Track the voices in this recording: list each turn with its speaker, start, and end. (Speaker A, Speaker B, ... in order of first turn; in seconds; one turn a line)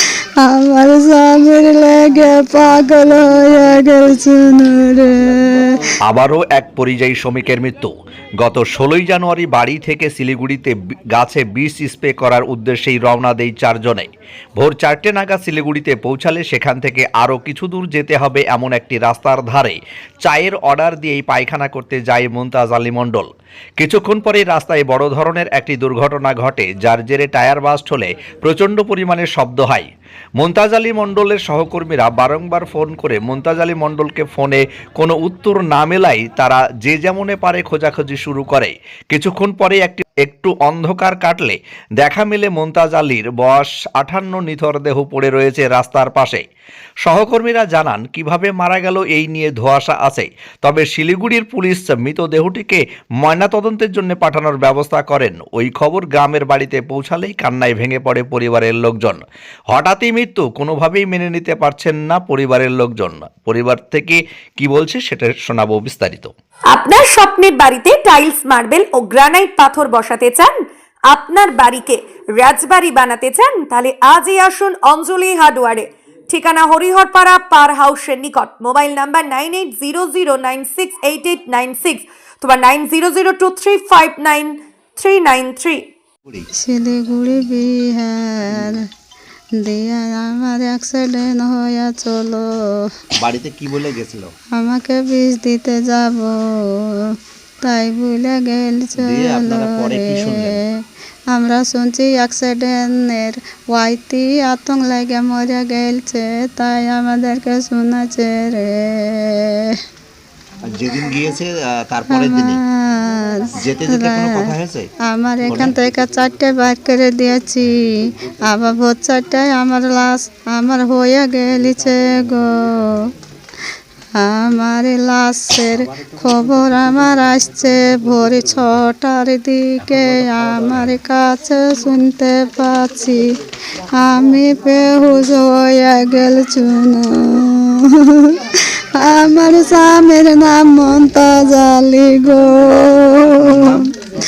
Speaker A: 0.4-5.8
Speaker B: 6.0-29.9
Speaker B: 30.4-46.4
Speaker B: 47.0-66.3
Speaker C: 66.7-85.9
Speaker A: 86.5-88.8
Speaker A: 89.6-92.9
Speaker B: 93.2-94.3
Speaker A: 94.5-109.8
Speaker B: 99.0-100.6
Speaker B: 110.7-112.6
Speaker A: 112.1-114.5
Speaker B: 113.6-114.9
Speaker A: 115.0-117.8
Speaker B: 115.5-115.7
Speaker A: 118.5-123.1
Speaker A: 124.2-133.2
Speaker A: 133.9-138.4
Speaker A: 138.9-143.8
Speaker B: 143.4-143.8